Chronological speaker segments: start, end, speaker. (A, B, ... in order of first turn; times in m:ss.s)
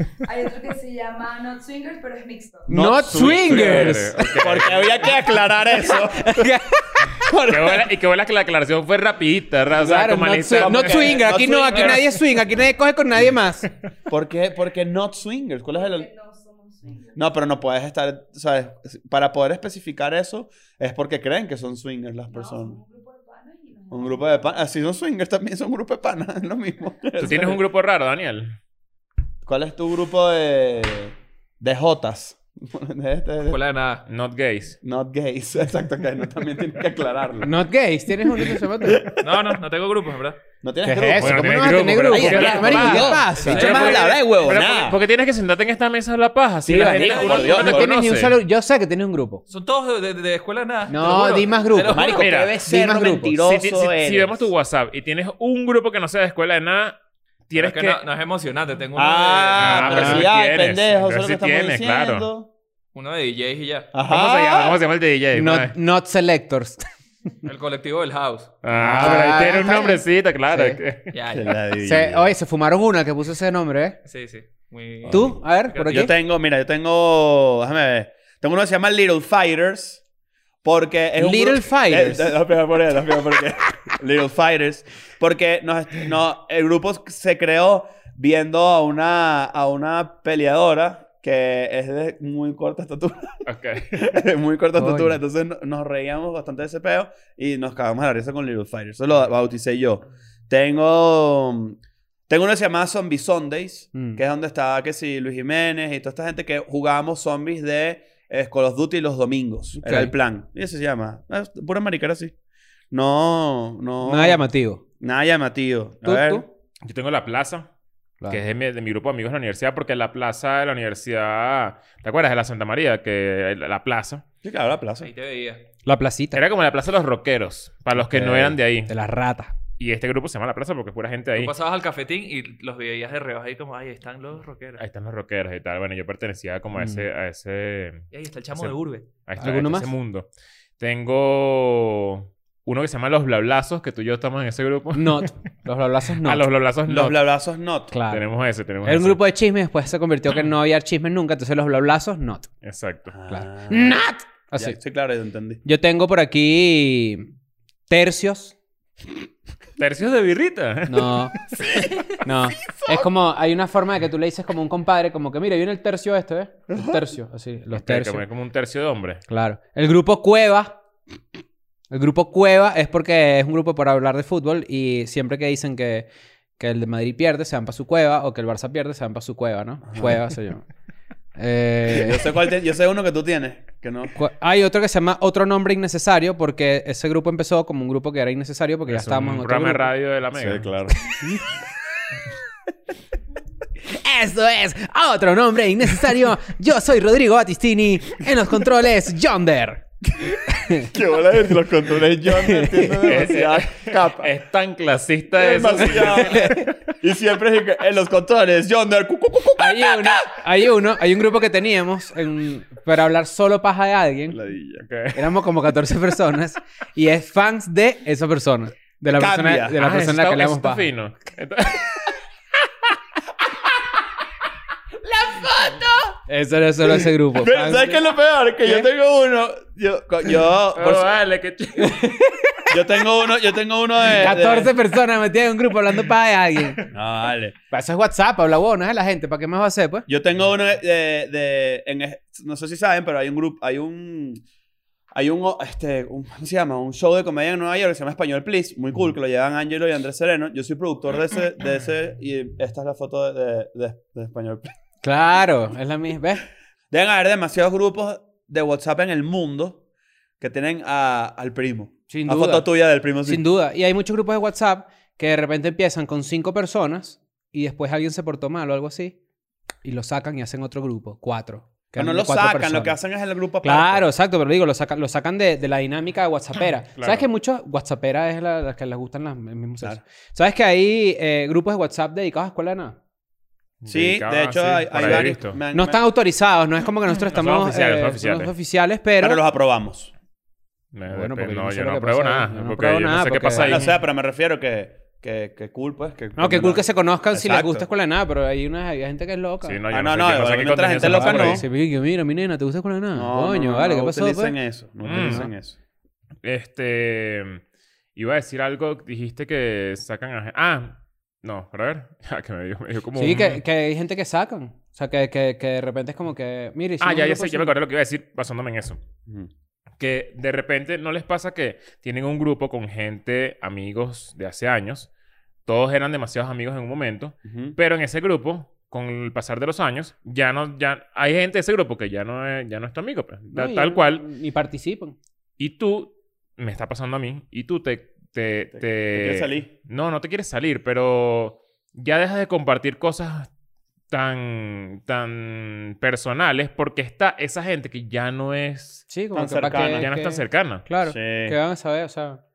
0:00.2-0:02.7 A
0:02.7-0:06.5 B
0:02.7-0:04.2 C
0:03.1-0:05.3 D
0:06.1-0:07.1 C
0:07.1-0:07.9 B
0:07.5-0:12.0 D
0:09.8-0:13.7 C
0:10.5-0:12.3 B
0:14.1-0:16.1 B
0:15.7-0:17.3 A
0:17.2-0:22.8 B
0:22.3-0:24.6 A
0:23.9-0:27.6 B
0:27.2-0:28.6 D
0:29.4-0:33.6 B
0:33.4-0:34.1 E
0:34.1-0:34.8 D
0:34.8-0:37.6 B
0:37.4-0:39.1 C
0:38.2-0:39.6 B
0:39.2-0:40.4 E
0:40.6-0:45.0 B
0:40.8-0:43.9 C
0:41.2-0:48.4 D
0:42.6-0:44.2 E
0:46.6-0:47.9 B
0:47.0-0:47.5 E
0:47.5-0:49.4 C
0:49.5-0:52.3 E
0:50.9-0:53.4 C
0:51.9-0:54.5 B
0:52.2-0:52.6 D
0:53.4-0:57.0 D
0:57.5-0:58.0 D
0:57.6-1:00.3 E
0:59.0-1:02.5 B
0:59.6-1:02.3 D
1:03.0-1:03.9 E
1:03.9-1:04.8 B
1:04.1-1:05.8 D
1:05.3-1:06.8 C
1:07.4-1:08.6 E
1:08.6-1:11.1 D
1:08.7-1:10.8 C
1:11.1-1:11.6 E
1:11.3-1:12.3 B
1:11.8-1:14.0 C
1:14.0-1:16.1 E
1:15.0-1:20.0 B
1:15.1-1:16.1 C
1:20.6-1:33.4 B
1:21.2-1:22.4 C
1:33.5-1:34.1 D
1:33.9-1:52.3 B
1:34.8-1:35.2 C
1:43.9-1:44.2 C
1:49.8-1:50.1 C
1:52.9-1:54.4 B
1:54.0-1:54.8 C
1:55.0-1:56.5 B
1:56.0-1:56.4 C
1:56.8-1:57.7 D
1:58.3-2:04.2 D
2:04.4-2:05.1 B
2:05.0-2:05.7 E
2:05.8-2:06.4 C
2:06.3-2:08.9 D
2:08.1-2:08.6 B
2:08.9-2:09.5 C
2:09.8-2:11.6 D
2:11.4-2:14.8 E
2:14.8-2:20.3 D
2:16.8-2:17.0 C
2:18.1-2:19.1 E
2:19.4-2:19.9 C
2:20.8-2:25.3 D
2:25.0-2:26.4 C
2:26.2-2:27.2 D
2:26.9-2:27.9 B
2:27.9-2:28.2 C
2:28.1-2:29.2 D
2:28.8-2:32.5 C
2:32.6-2:33.1 D
2:33.1-2:34.0 B
2:33.3-2:34.8 C
2:34.6-2:35.6 B
2:35.6-2:37.3 C
2:37.9-2:38.6 C
2:39.8-2:41.4 D
2:40.9-2:41.4 C
2:41.5-2:43.1 B
2:42.2-2:48.2 C
2:46.7-2:47.1 B
2:47.7-2:49.2 D
2:49.3-2:50.8 C
2:51.9-3:00.7 C
2:59.8-3:00.2 B
3:01.4-3:02.3 C
3:01.9-3:04.1 B
3:04.2-3:09.9 C
3:08.9-3:10.7 D
3:10.3-3:11.4 B
3:13.9-3:19.8 C
3:20.2-3:24.3 B
3:20.5-3:20.9 C
3:22.3-3:23.3 C
3:23.0-3:26.7 D
3:25.4-3:30.4 B
3:26.4-3:26.6 C
3:29.6-3:34.4 C
3:34.3-3:34.9 B
3:34.8-3:35.2 D
3:35.1-3:40.9 C
3:39.1-3:39.8 B
3:39.8-3:42.2 D
3:45.2-3:45.9 B
3:46.3-3:48.1 C
3:47.3-3:51.1 B
3:50.8-3:52.0 D
3:51.8-3:52.7 C
3:52.7-3:54.7 B
3:54.1-3:56.8 C
3:56.9-3:57.6 B
3:57.7-4:00.1 C
4:00.1-4:04.4 B
4:05.1-4:14.7 B
4:15.0-4:16.5 C
4:16.9-4:19.8 B
4:20.4-4:23.4 B
4:22.1-4:22.7 C
4:23.2-4:29.2 C
4:29.8-4:33.0 C
4:32.0-4:34.1 B
4:33.6-4:43.0 C
4:37.0-4:37.3 D
4:43.8-4:45.6 D
4:43.9-4:46.0 B
4:45.7-4:49.4 C
4:47.1-4:48.5 D
4:49.2-4:50.1 B
4:50.9-4:54.0 D
4:51.1-4:53.8 C
4:53.6-4:57.9 B
4:56.4-4:59.8 C
4:59.6-5:01.6 D
4:59.9-5:01.6 B
5:01.0-5:04.6 C
5:03.1-5:05.8 B
5:05.0-5:05.5 D
5:05.1-5:05.5 C
5:06.4-5:07.6 D
5:08.2-5:13.6 D
5:13.2-5:17.7 C
5:17.0-5:19.0 D
5:20.0-5:25.1 D
5:25.7-5:34.2 D
5:27.4-5:27.8 B
5:33.5-5:35.2 C
5:35.6-5:43.5 D
5:38.7-5:39.7 B
5:44.1-5:49.1 D
5:49.1-5:52.4 C
5:49.3-5:50.1 B
5:49.8-5:50.8 D
5:51.0-5:51.6 B